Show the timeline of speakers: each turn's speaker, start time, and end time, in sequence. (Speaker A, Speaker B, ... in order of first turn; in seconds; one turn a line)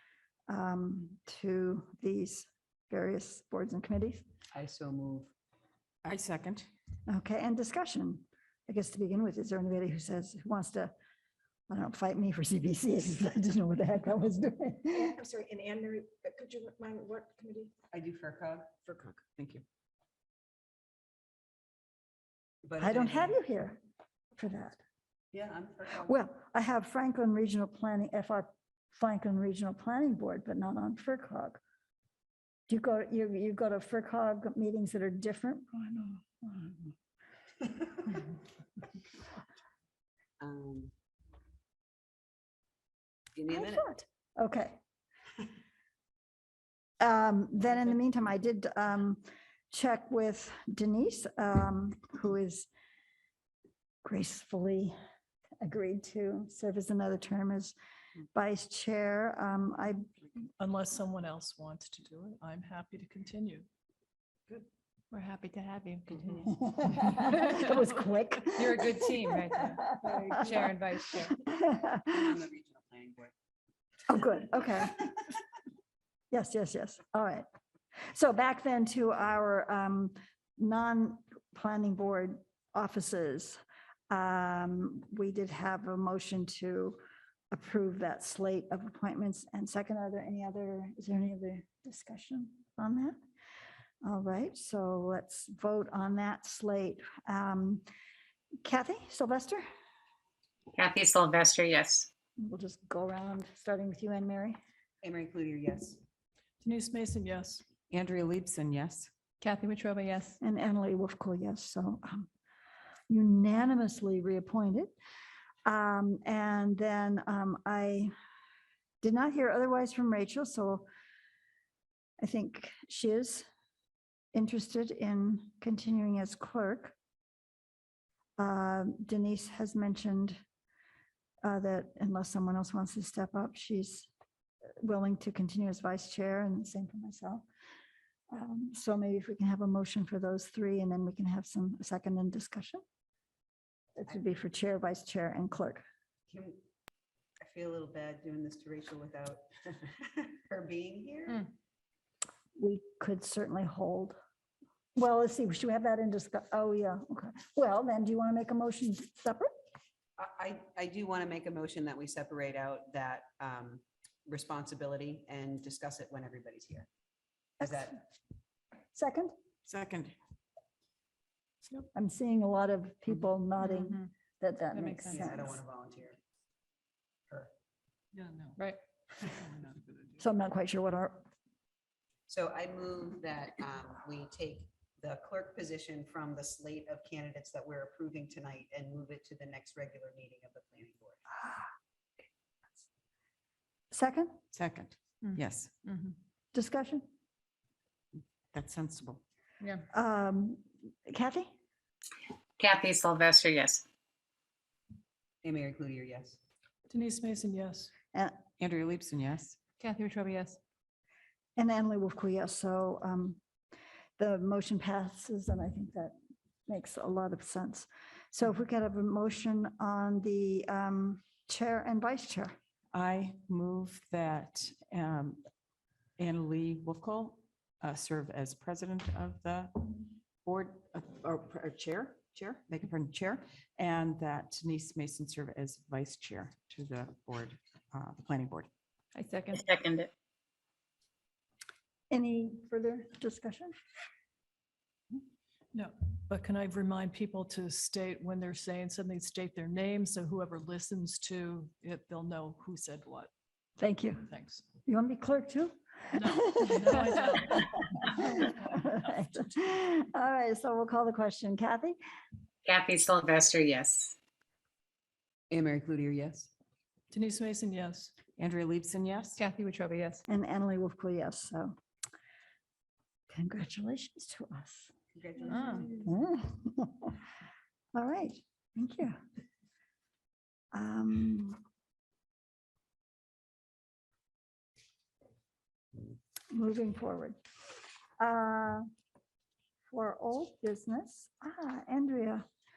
Speaker A: 0.5-4.2
Speaker B: 4.5-5.3
Speaker C: 6.0-6.7
Speaker A: 7.1-10.9
Speaker A: 11.7-15.2
Speaker D: 15.3-17.7
Speaker B: 17.9-18.7
Speaker C: 18.9-19.6
Speaker B: 22.6-23.4
Speaker A: 22.8-23.8
Speaker A: 24.4-24.8
Speaker B: 25.3-26.1
Speaker A: 26.1-31.6
Speaker A: 32.7-36.9
Speaker B: 40.4-40.9
Speaker B: 43.4-43.9
Speaker A: 43.5-44.8
Speaker A: 47.0-52.7
Speaker A: 54.0-54.9
Speaker A: 55.6-57.8
Speaker A: 58.3-60.1
Speaker E: 60.6-63.7
Speaker F: 65.1-66.7
Speaker A: 66.6-69.2
Speaker F: 68.6-71.4
Speaker A: 70.1-70.7
Speaker A: 71.5-72.2
Speaker B: 72.1-73.3
Speaker A: 74.1-75.1
Speaker A: 76.3-77.5
Speaker A: 78.1-87.0
Speaker A: 87.5-93.2
Speaker A: 94.0-97.8
Speaker A: 98.6-99.7
Speaker G: 100.8-102.1
Speaker A: 102.4-104.6
Speaker B: 105.0-106.0
Speaker E: 106.6-107.6
Speaker C: 107.9-109.1
Speaker F: 109.4-110.4
Speaker A: 110.4-112.3
Speaker A: 113.1-114.9
Speaker A: 115.7-118.1
Speaker A: 119.0-120.9
Speaker A: 122.2-123.5
Speaker A: 124.3-127.0
Speaker A: 128.4-130.4
Speaker A: 131.4-134.1
Speaker A: 134.8-137.4
Speaker A: 138.3-142.8
Speaker A: 144.0-145.8
Speaker B: 146.3-146.6
Speaker B: 147.4-151.5
Speaker A: 152.6-154.2
Speaker A: 155.0-159.5
Speaker B: 160.2-166.9
Speaker B: 167.6-168.0
Speaker A: 168.9-169.3
Speaker C: 169.7-170.2
Speaker A: 171.9-175.6
Speaker F: 173.6-174.1
Speaker F: 174.7-175.3
Speaker B: 175.1-176.2
Speaker A: 180.2-181.3
Speaker B: 182.3-191.2
Speaker A: 193.9-194.3
Speaker C: 194.5-195.7
Speaker F: 195.2-196.2
Speaker A: 196.5-197.1
Speaker C: 198.5-199.2
Speaker A: 199.9-201.5
Speaker G: 202.6-203.8
Speaker B: 205.4-206.4
Speaker E: 206.9-207.9
Speaker C: 208.6-209.6
Speaker F: 209.8-210.6
Speaker A: 211.6-213.4
Speaker A: 214.2-216.1
Speaker A: 216.7-222.5
Speaker C: 222.9-225.4
Speaker C: 226.2-238.7
Speaker F: 239.2-239.6
Speaker G: 239.5-240.1
Speaker A: 242.1-243.7
Speaker E: 245.7-253.3
Speaker A: 253.8-254.3
Speaker E: 254.3-254.6
Speaker A: 254.9-262.0
Speaker E: 256.2-257.7
Speaker G: 262.7-264.1
Speaker B: 265.5-266.5
Speaker E: 267.1-268.1
Speaker C: 268.4-269.4
Speaker F: 269.4-270.2
Speaker A: 270.3-271.7
Speaker A: 273.3-274.9
Speaker B: 275.1-276.1
Speaker F: 275.5-275.9
Speaker A: 276.0-277.1
Speaker A: 277.9-279.2
Speaker A: 280.7-281.6
Speaker A: 286.5-287.4
Speaker A: 288.2-288.9
Speaker A: 289.9-292.4